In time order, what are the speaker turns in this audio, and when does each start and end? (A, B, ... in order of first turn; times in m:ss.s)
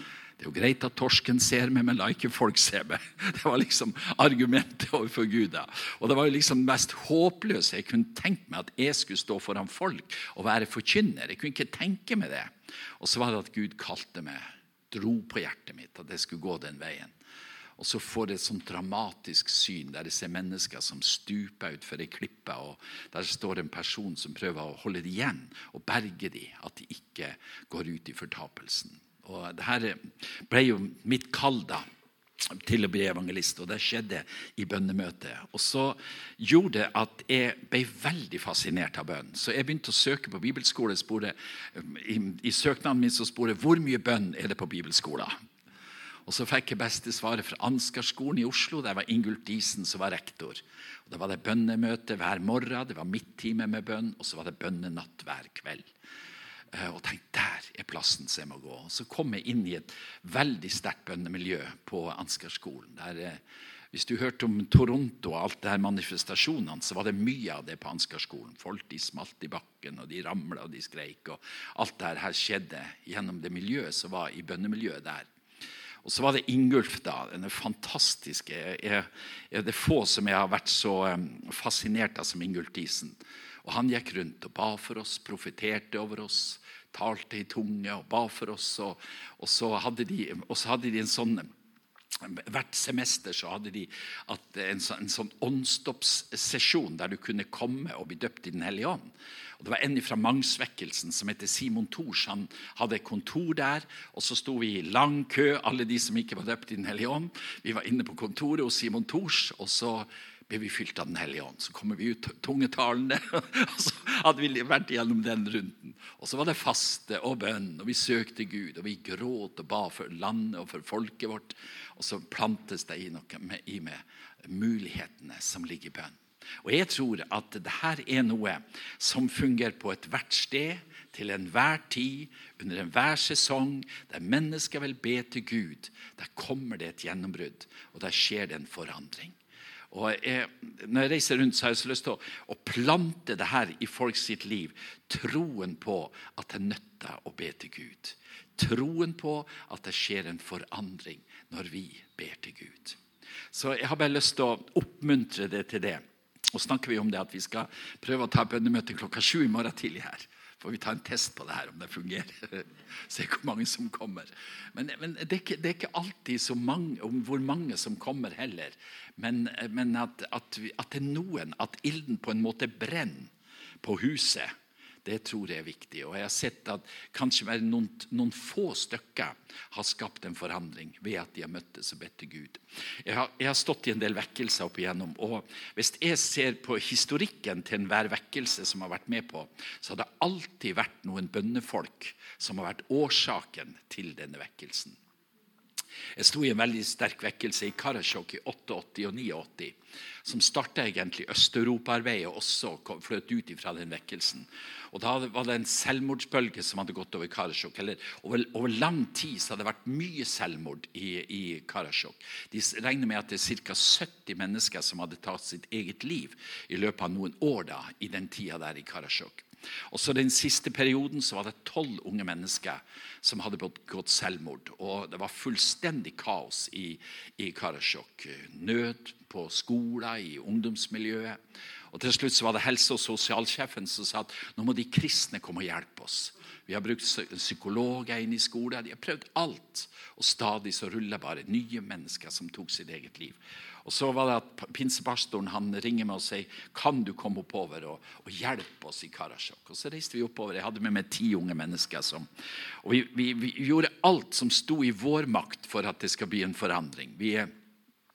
0:00.4-0:17.1 A
0:17.8-0:31.8 A
0:32.4-0:45.4 A
0:46.3-0:55.9 A
0:56.7-1:15.3 A
1:16.0-1:31.5 A
1:32.2-2:19.4 A
2:19.9-2:33.0 A
2:33.5-3:15.0 A
3:16.2-3:51.4 A
3:51.9-4:12.3 A
4:12.8-4:17.5 A